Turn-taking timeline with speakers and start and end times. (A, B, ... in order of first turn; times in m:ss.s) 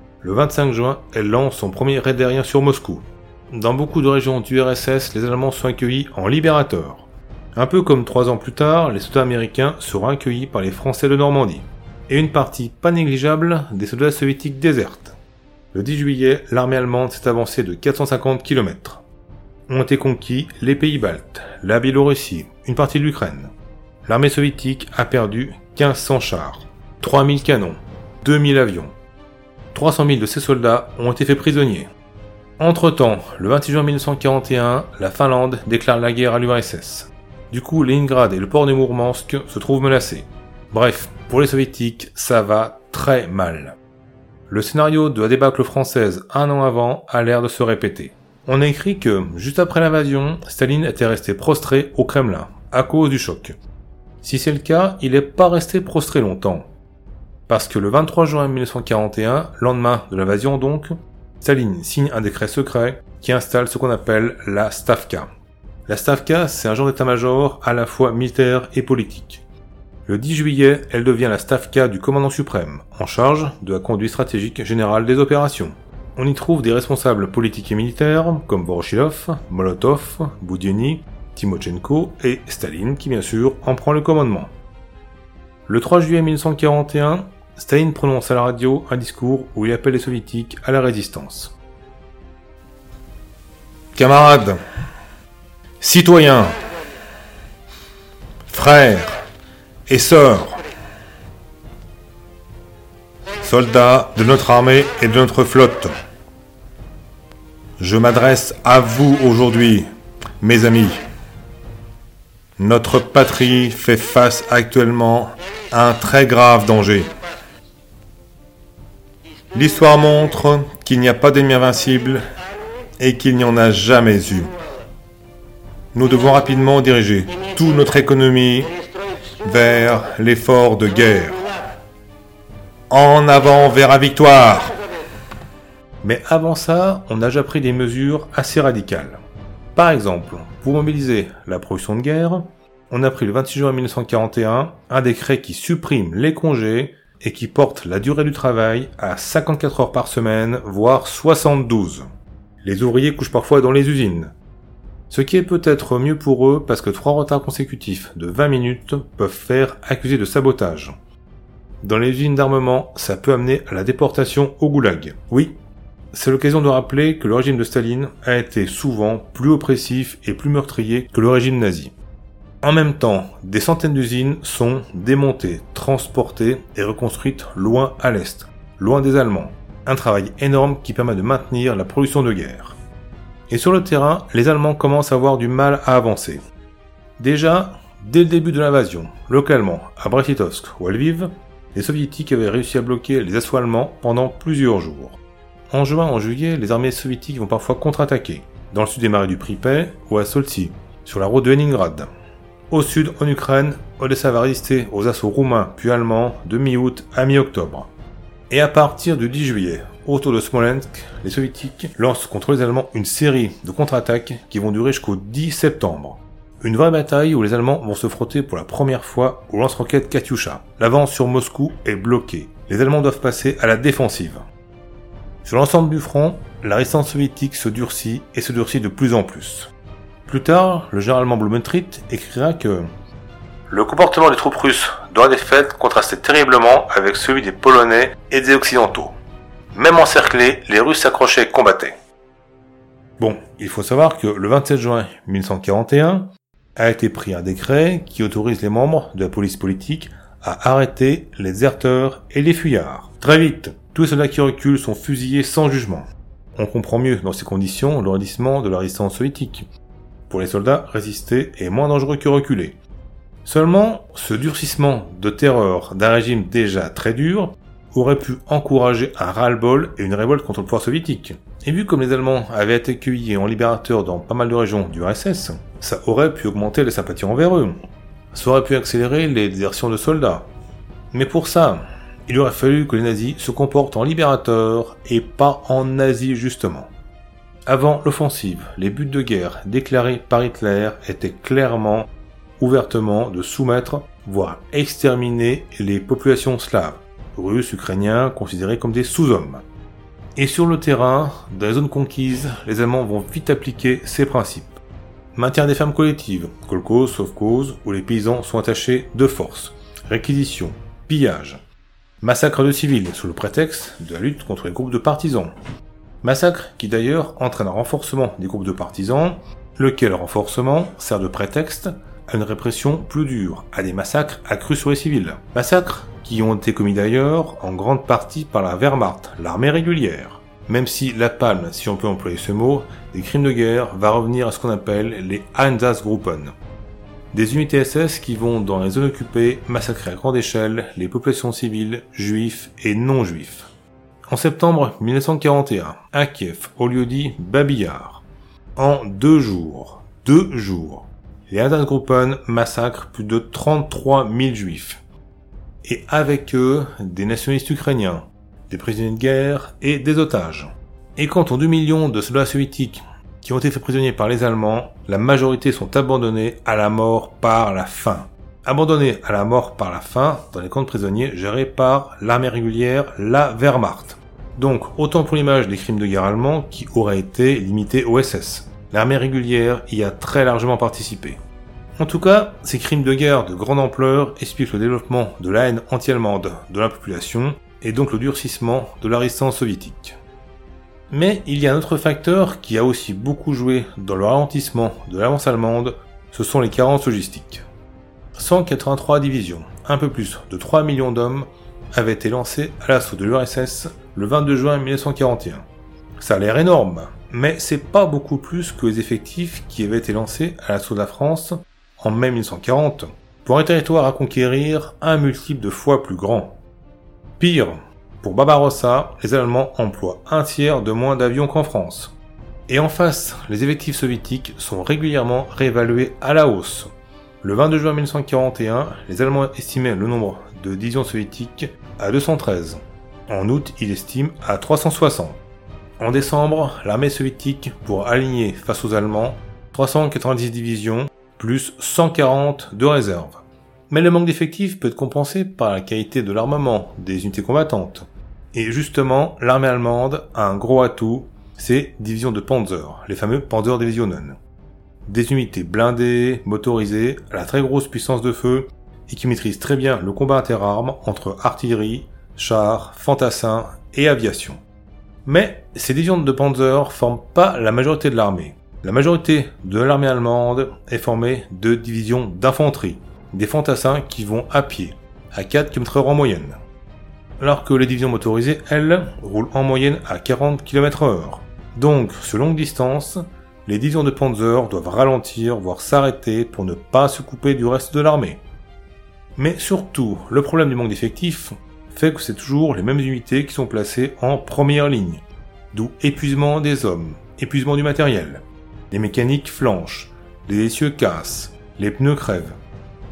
0:00.2-0:15.2 A
0:15.7-0:19.0 A
0:19.7-0:23.5 A
0:24.0-0:28.9 A
0:29.7-0:31.9 A
0:32.6-0:43.8 A
0:44.5-0:53.6 A
0:54.2-0:56.7 A
0:57.5-1:05.3 A
1:05.9-1:09.4 A
1:10.1-1:24.5 A
1:25.7-1:31.6 A
1:33.9-1:34.6 A
1:35.8-1:36.5 A
1:38.5-1:39.2 A
1:39.9-1:40.6 A
1:43.4-1:45.9 A
1:47.8-1:49.9 A
1:50.4-1:51.0 A
1:52.6-1:57.1 A
1:59.5-2:02.2 A
2:03.0-2:04.5 A
2:05.9-2:08.7 A
2:09.4-2:11.4 A
2:12.9-2:14.7 A
2:16.0-2:19.2 A
2:19.7-2:32.1 A
2:32.6-2:34.3 A
2:35.1-2:40.9 A
2:41.8-2:45.5 A
2:46.1-2:51.9 A
2:52.6-3:02.8 A
3:03.5-3:06.4 A
3:07.2-3:15.2 A
3:15.7-3:22.1 A
3:22.7-3:27.9 A
3:28.5-3:44.4 A
3:45.4-3:49.7 A
3:50.3-3:52.9 A
3:53.7-3:59.2 A
3:59.7-4:01.9 A
4:03.2-4:19.7 A
4:20.3-4:22.8 A
4:23.4-4:37.8 A
4:38.3-4:40.5 A
4:41.1-4:46.9 A
4:47.7-4:59.6 A
5:00.4-5:04.8 A
5:05.3-5:11.6 A
5:12.2-5:15.5 A
5:16.2-5:36.5 A
5:37.3-5:43.7 A
5:44.3-5:48.2 A
5:48.8-5:55.0 A
5:55.8-6:21.4 A
6:22.0-6:30.2 A
6:31.1-6:37.6 A
6:38.3-6:45.7 A
6:46.2-6:56.6 A
6:57.4-7:02.2 A
7:02.7-7:06.9 A
7:07.4-7:15.4 A
7:16.0-7:34.4 A
7:35.1-7:44.6 A
7:45.2-7:56.6 A
7:57.4-8:08.4 A
8:09.4-8:22.6 A